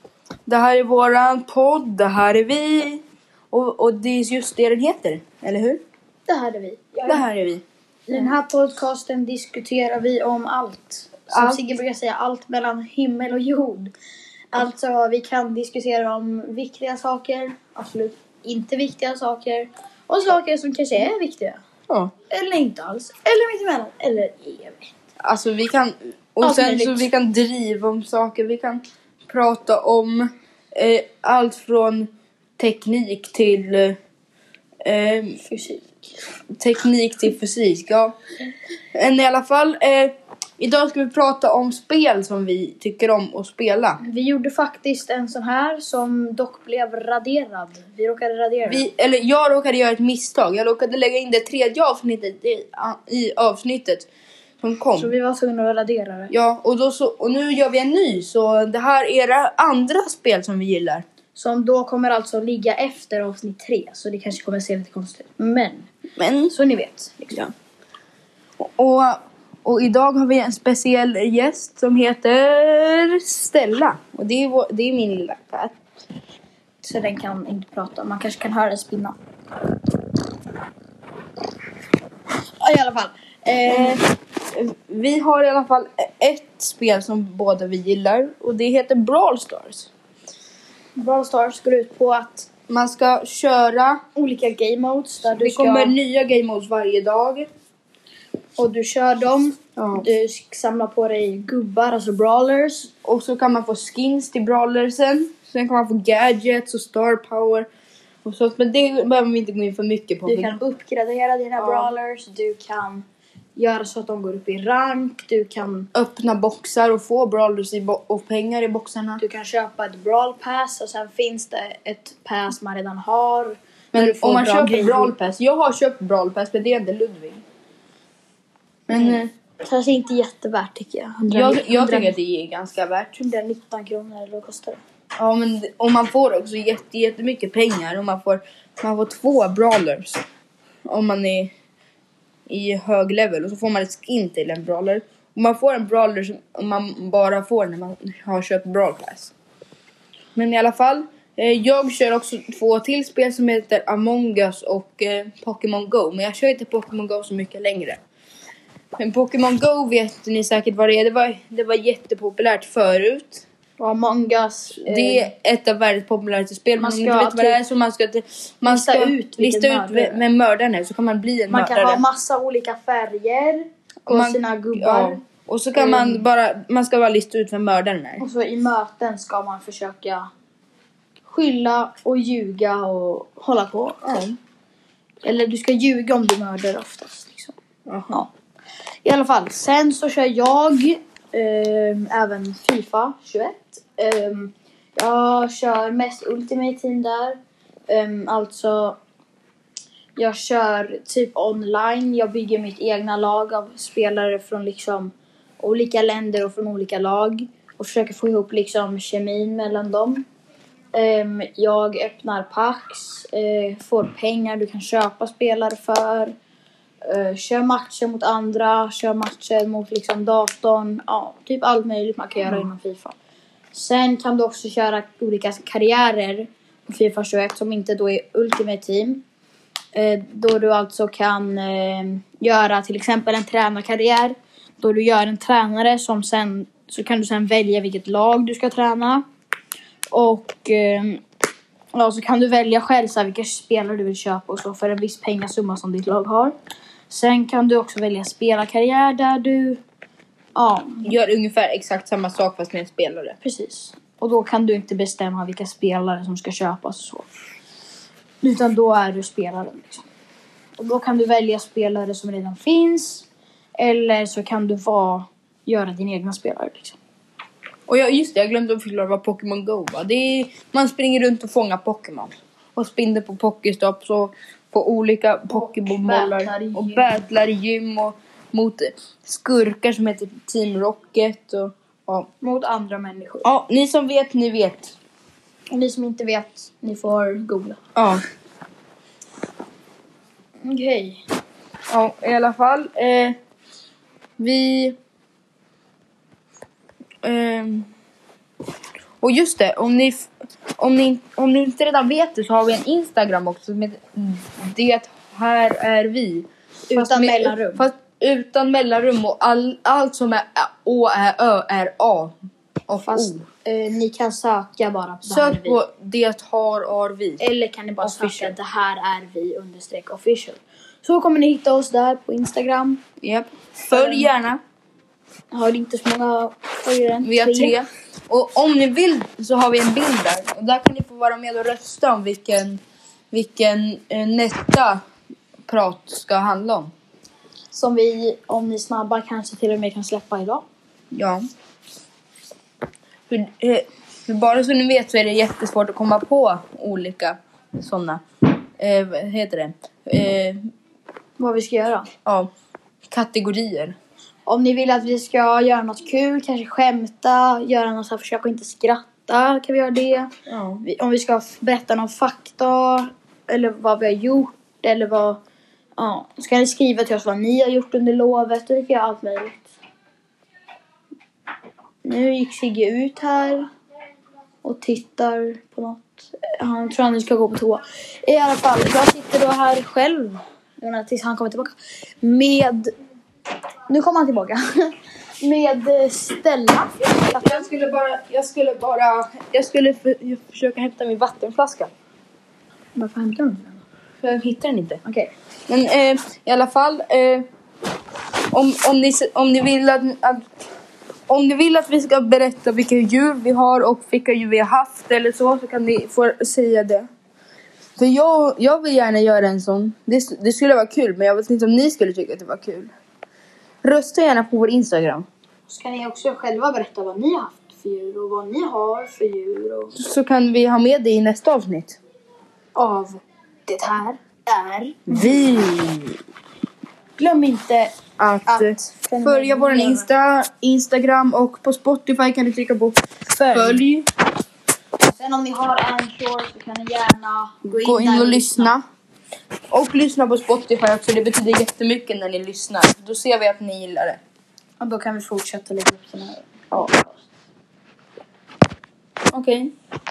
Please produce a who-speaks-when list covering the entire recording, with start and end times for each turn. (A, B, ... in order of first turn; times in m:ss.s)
0:00.5-0:05.8 A
0:06.3-0:07.2 B
0:07.1-0:07.6 A
0:08.1-0:13.9 B
0:11.3-0:11.6 A
0:14.5-0:21.6 B
0:22.3-0:24.9 B
0:25.2-0:34.0 A
0:26.4-0:27.1 B
0:34.8-0:35.4 A
0:35.4-0:35.9 B
0:36.6-0:38.1 A
0:38.9-0:44.0 A
0:44.0-0:48.9 B
0:48.6-0:54.1 A
0:54.6-0:55.1 A
0:55.0-0:56.3 B
0:56.3-1:01.0 A
1:01.3-1:05.9 B
1:06.2-1:06.5 A
1:06.5-1:07.5 B
1:08.6-1:15.8 A
1:16.8-1:19.2 B
1:22.6-1:24.0 B
1:23.6-1:29.9 A
1:31.0-1:32.5 B
1:32.7-1:34.0 A
1:34.1-1:35.9 B
1:35.4-1:37.5 A
1:38.6-1:42.9 B
1:39.8-1:40.1 A
1:43.0-1:47.7 A
1:48.2-1:50.5 A
1:50.2-1:53.0 B
1:51.6-1:51.9 A
1:53.6-1:55.9 B
1:55.9-1:59.2 A
1:59.2-2:05.1 B
2:03.9-2:07.4 A
2:08.9-2:12.1 B
2:08.9-2:09.3 A
2:11.3-2:13.1 A
2:13.2-2:14.8 B
2:15.2-2:20.2 A
2:20.8-2:21.5 A
2:22.5-2:29.3 A
2:30.4-2:38.0 A
2:39.0-2:43.4 A
2:43.8-2:45.3 B
2:44.8-2:52.0 A
2:46.8-2:47.6 B
2:48.6-2:50.2 B
2:51.5-2:55.2 B
2:54.0-2:58.2 A
2:55.7-2:56.2 B
2:58.2-3:00.3 B
3:01.2-3:04.2 B
3:04.0-3:04.4 A
3:05.2-3:07.5 B
3:07.9-3:08.2 A
3:09.0-3:19.0 B
3:20.2-3:30.2 B
3:30.9-3:36.3 B
3:37.0-3:43.2 B
3:43.7-3:49.2 B
3:49.9-3:59.2 B
4:00.1-4:01.2 B
4:01.9-4:06.6 B
4:07.1-4:09.8 B
4:10.5-4:11.1 B
4:11.0-4:13.4 A
4:13.4-4:17.3 B
4:18.4-4:20.0 B
4:20.8-4:23.3 B
4:23.8-4:27.0 B
4:27.9-4:42.3 A
4:35.5-4:37.2 B
4:42.4-4:43.5 B
4:43.4-4:45.0 A
4:45.7-4:47.8 B
4:48.0-4:48.2 A
4:50.6-4:51.2 B
4:51.9-4:53.4 A
4:54.4-4:55.0 A
4:57.2-4:57.9 A
4:59.2-5:12.4 A
5:06.9-5:07.8 B
5:12.9-5:13.4 A
5:13.0-5:15.8 B
5:15.2-5:17.4 A
5:17.4-5:23.0 B
5:18.0-5:18.5 A
5:23.2-5:24.6 A
5:23.9-5:24.3 B
5:25.5-5:27.8 B
5:27.2-5:35.0 A
5:35.7-5:36.9 A
5:37.7-5:40.6 B
5:41.1-5:41.4 A
5:43.3-5:48.2 A
5:48.8-5:50.6 A
5:51.4-5:52.1 B
5:53.1-5:54.0 A
5:54.4-6:00.3 B
6:00.5-6:00.8 A
6:00.8-6:05.4 B
6:06.0-6:09.7 B
6:12.0-6:13.7 B
6:14.6-6:22.9 B
6:23.9-6:27.7 B
6:27.2-6:31.9 A
6:33.0-6:33.8 B
6:34.2-6:35.0 A
6:35.0-6:35.3 B
6:35.7-6:37.4 A
6:38.5-6:40.4 A
6:41.3-6:47.1 A
6:48.0-6:52.9 A
6:53.8-6:55.3 A
6:55.6-6:59.9 B
7:00.0-7:02.0 A
7:02.7-7:05.4 B
7:05.1-7:06.2 A
7:07.2-7:08.0 B
7:08.2-7:14.1 A
7:08.5-7:10.1 B
7:13.3-7:13.8 B
7:15.1-7:18.7 B
7:17.8-7:18.8 A
7:19.7-7:24.2 A
7:24.8-7:27.3 B
7:29.3-7:29.7 A